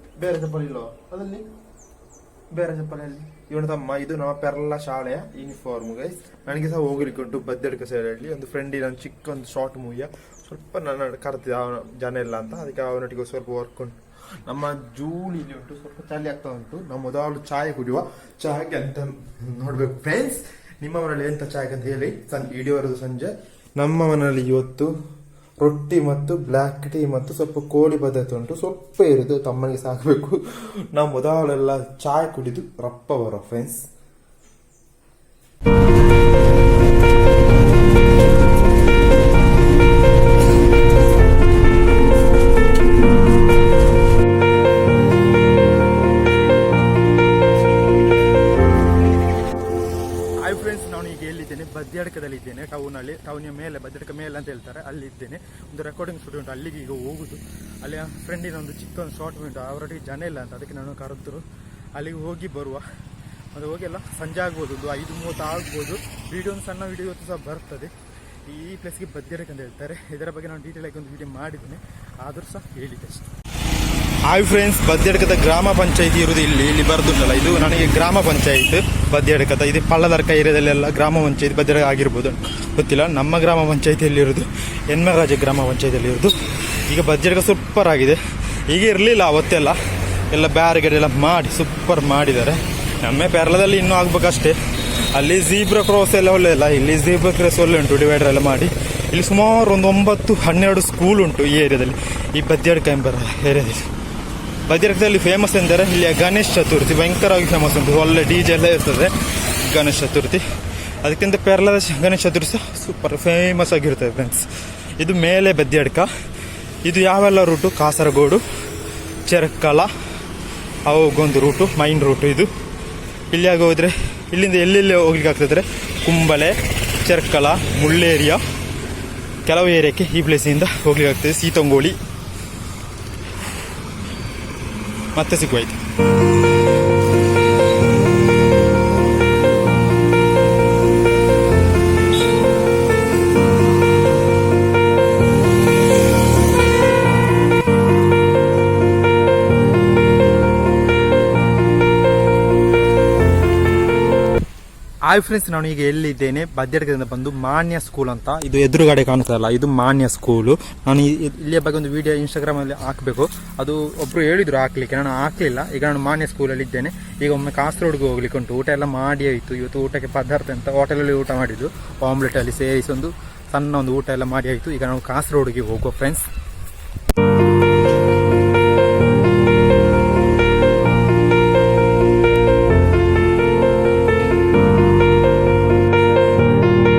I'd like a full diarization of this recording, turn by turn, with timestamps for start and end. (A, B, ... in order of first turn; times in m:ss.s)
0:00.2-0:01.5 A
0:02.5-0:24.9 A
0:25.6-0:33.9 A
0:50.4-1:02.8 A
1:03.5-1:07.9 A
1:08.4-1:13.3 A
1:14.2-1:29.8 A
1:30.3-1:43.9 A
1:44.6-1:50.4 A
1:51.0-1:56.1 A
1:56.8-1:58.4 A
1:59.2-1:59.9 A
2:00.8-2:02.5 A
2:03.3-2:08.4 A
2:09.4-2:12.0 A
2:15.1-2:15.8 A
2:35.0-2:56.3 A